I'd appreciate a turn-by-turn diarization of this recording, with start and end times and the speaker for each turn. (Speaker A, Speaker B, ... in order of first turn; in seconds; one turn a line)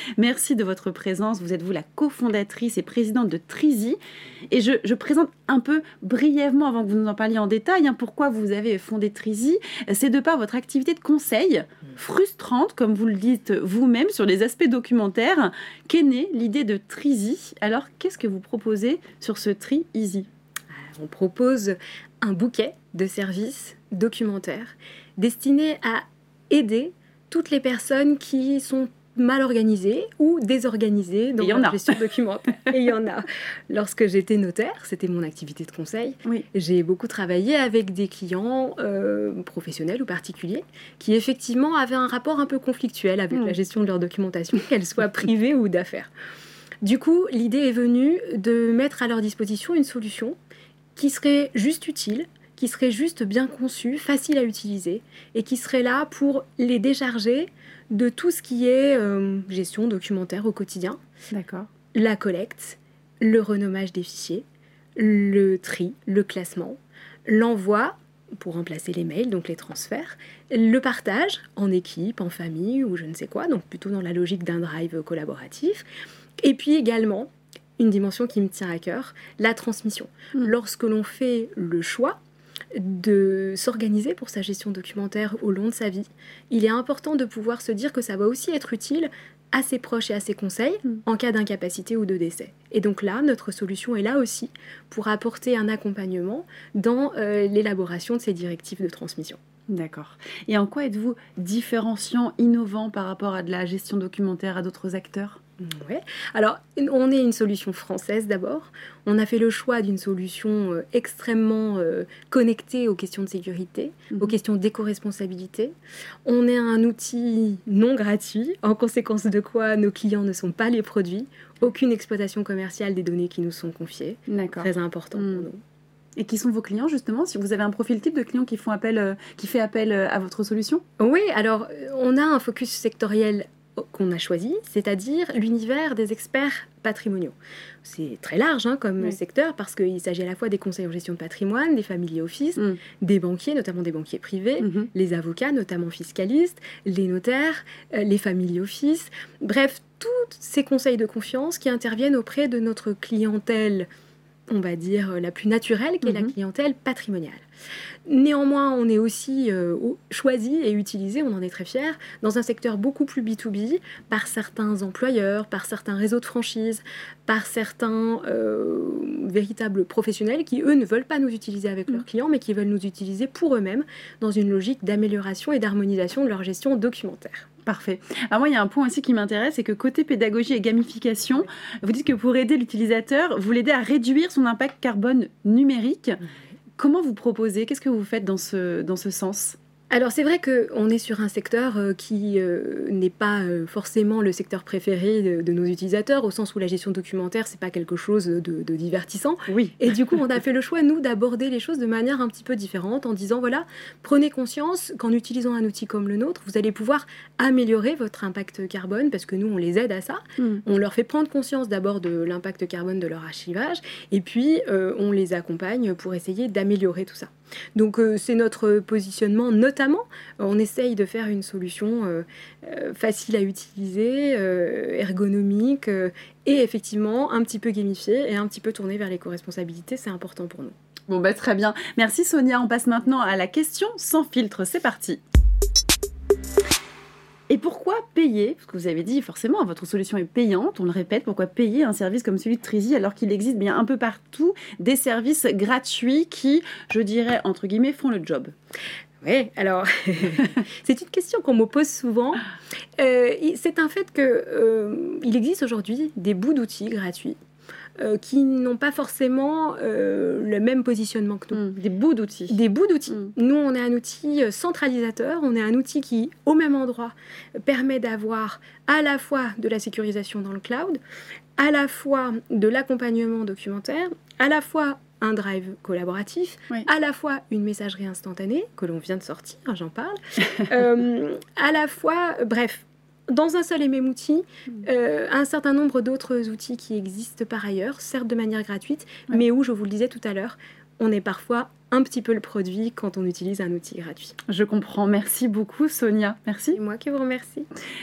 Speaker A: 0.2-4.0
Speaker A: 4.5-20.3
Speaker B: 20.7-46.1
Speaker A: 31.4-32.0
Speaker B: 46.8-50.4
Speaker B: 51.0-61.0
Speaker A: 61.3-61.7
Speaker B: 61.9-64.4
Speaker B: 65.0-75.8
Speaker B: 76.4-82.2
Speaker B: 82.7-99.4
Speaker A: 99.7-105.4
Speaker B: 105.6-115.7
Speaker B: 116.2-125.6
Speaker A: 124.3-125.5
Speaker A: 126.2-130.8
Speaker B: 131.0-153.9
Speaker A: 144.6-144.9
Speaker B: 154.5-157.4
Speaker A: 156.0-156.3
Speaker B: 158.1-177.5
Speaker A: 177.6-186.2
Speaker A: 186.8-189.6
Speaker B: 189.9-230.7
Speaker A: 199.5-199.8
Speaker A: 231.1-235.2
Speaker A: 237.5-248.5
Speaker B: 249.2-252.4
Speaker B: 253.0-257.4
Speaker B: 258.0-261.6
Speaker A: 261.5-262.6
Speaker B: 262.5-271.0
Speaker B: 271.6-294.4
Speaker A: 294.5-296.8
Speaker B: 296.7-297.7